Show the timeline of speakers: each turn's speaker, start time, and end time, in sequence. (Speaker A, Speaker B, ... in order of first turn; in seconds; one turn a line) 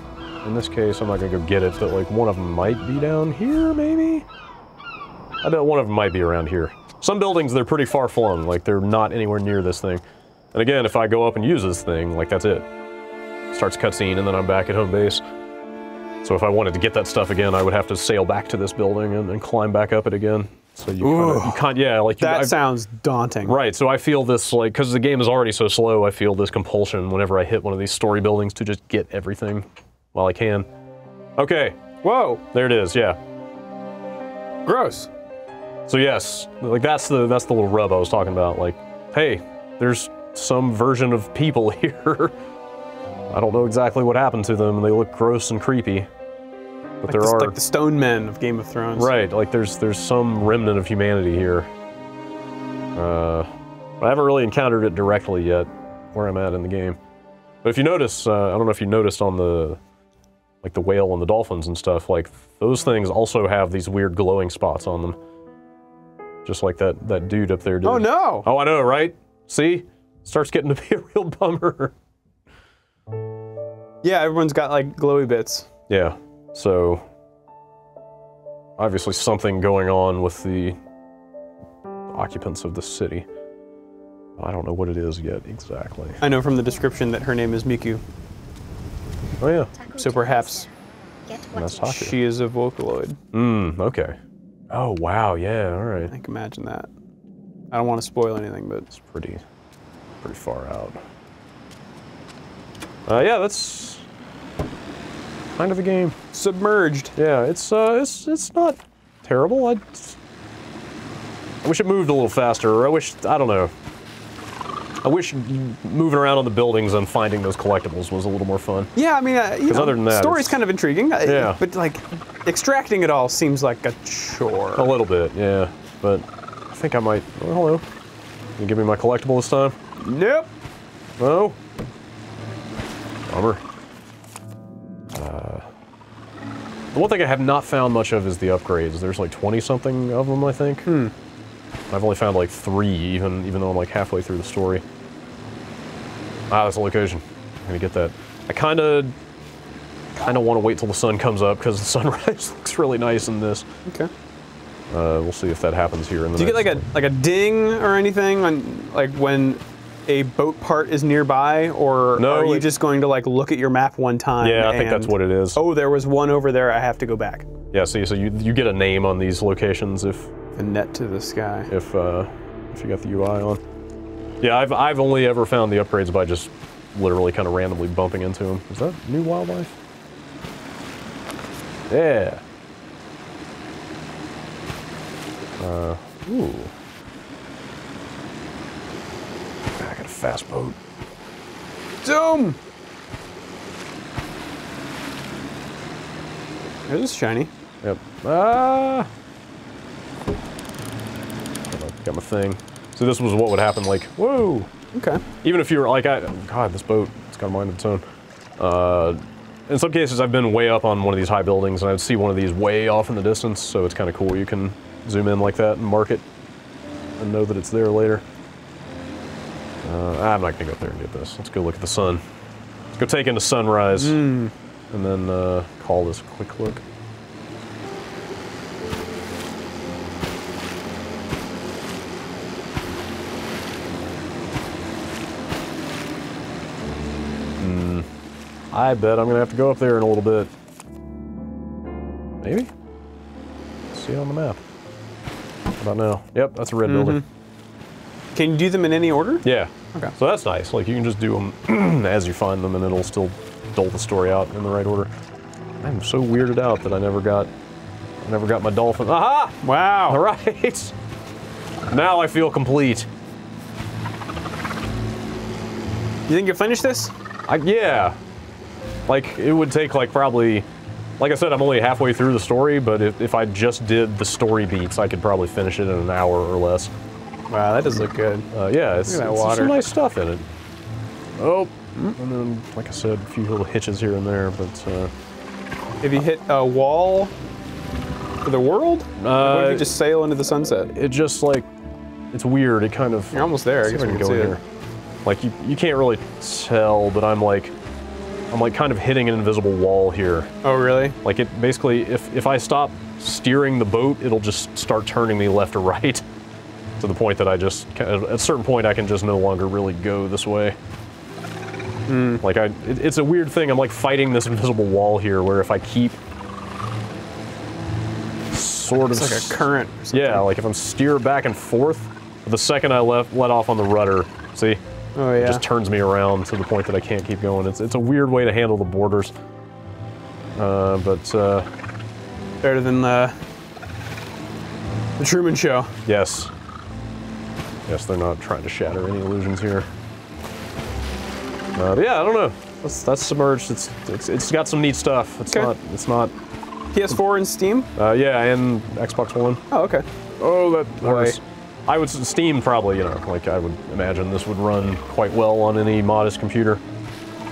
Speaker A: 0.4-4.3
Speaker A: 5.4-10.0
Speaker A: 10.5-12.7
Speaker A: 13.5-15.2
Speaker A: 16.2-22.6
Speaker B: 21.0-23.6
Speaker A: 23.4-30.7
Speaker A: 31.4-31.8
Speaker B: 32.0-32.4
Speaker A: 32.5-33.2
Speaker B: 34.6-35.1
Speaker A: 35.9-42.4
Speaker A: 43.3-46.1
Speaker A: 47.0-47.5
Speaker B: 47.1-49.1
Speaker A: 49.0-51.7
Speaker A: 53.0-57.0
Speaker A: 57.6-59.8
Speaker A: 60.6-65.2
Speaker A: 66.5-72.0
Speaker B: 67.8-68.5
Speaker B: 74.0-75.7
Speaker A: 75.9-77.0
Speaker A: 78.8-80.8
Speaker A: 82.1-83.2
Speaker A: 84.4-86.2
Speaker B: 86.2-88.0
Speaker A: 89.4-89.7
Speaker C: 89.7-90.8
Speaker B: 90.0-90.7
Speaker C: 91.3-92.1
Speaker A: 91.6-92.2
Speaker B: 91.9-93.2
Speaker A: 93.3-94.2
Speaker A: 94.7-96.1
Speaker B: 96.1-96.9
Speaker B: 97.7-98.9
Speaker A: 98.9-99.4
Speaker A: 100.2-101.0
Speaker A: 103.1-104.0
Speaker A: 105.5-106.2
Speaker B: 106.3-107.1
Speaker A: 107.2-110.2
Speaker A: 111.6-113.7
Speaker A: 115.0-118.9
Speaker B: 119.0-124.9
Speaker A: 119.7-120.6
Speaker A: 121.2-121.6
Speaker A: 124.8-127.8
Speaker A: 128.6-129.8
Speaker B: 130.0-130.5
Speaker A: 131.2-131.6
Speaker A: 133.3-133.6
Speaker A: 135.1-135.7
Speaker A: 136.9-140.9
Speaker B: 140.9-141.1
Speaker A: 141.9-144.8
Speaker A: 146.5-149.1
Speaker A: 150.2-153.7
Speaker B: 153.9-154.1
Speaker A: 154.9-156.9
Speaker B: 156.4-167.5
Speaker A: 162.2-162.7
Speaker A: 164.4-165.6
Speaker A: 167.7-170.3
Speaker B: 170.6-171.7
Speaker A: 171.7-173.6
Speaker A: 174.4-179.8
Speaker A: 181.9-182.4
Speaker A: 185.6-186.7
Speaker A: 189.8-190.8
Speaker B: 192.0-192.6
Speaker B: 196.8-197.5
Speaker A: 197.8-199.1
Speaker A: 201.7-204.7
Speaker B: 204.9-205.2
Speaker A: 205.4-208.1
Speaker A: 208.6-216.2
Speaker A: 217.2-218.2
Speaker A: 219.8-222.2
Speaker A: 223.0-224.2
Speaker B: 223.9-224.5
Speaker A: 224.9-226.8
Speaker A: 237.6-238.1
Speaker A: 238.7-240.5
Speaker A: 242.4-242.7
Speaker A: 243.9-244.6
Speaker A: 245.8-247.2
Speaker B: 246.8-247.2
Speaker B: 248.3-249.4
Speaker A: 249.4-255.1
Speaker A: 255.8-257.5
Speaker A: 258.2-260.9
Speaker B: 259.6-260.2
Speaker A: 261.9-263.1
Speaker B: 266.3-267.1
Speaker A: 267.5-268.2
Speaker A: 269.1-270.7
Speaker A: 271.2-276.9
Speaker B: 277.5-278.5
Speaker A: 278.5-280.5
Speaker B: 279.1-279.8
Speaker A: 281.4-285.1
Speaker B: 286.0-287.3
Speaker B: 288.4-290.9
Speaker A: 289.2-289.9
Speaker A: 290.9-291.7
Speaker A: 292.3-294.6
Speaker B: 293.3-294.6
Speaker A: 295.2-297.7
Speaker A: 298.5-300.5
Speaker B: 300.6-301.2
Speaker A: 301.2-306.2
Speaker A: 307.0-310.8
Speaker B: 312.1-312.4
Speaker A: 312.4-316.2
Speaker A: 318.5-324.8
Speaker B: 319.1-320.5
Speaker B: 325.1-325.6
Speaker A: 325.4-329.3
Speaker A: 330.6-331.7
Speaker B: 332.6-333.4
Speaker B: 335.2-335.9
Speaker A: 336.1-336.5
Speaker A: 337.9-339.9
Speaker A: 341.8-346.4
Speaker B: 345.5-345.7
Speaker B: 346.9-347.9
Speaker A: 347.9-349.6
Speaker B: 349.7-350.1
Speaker A: 350.4-356.8
Speaker B: 351.0-351.4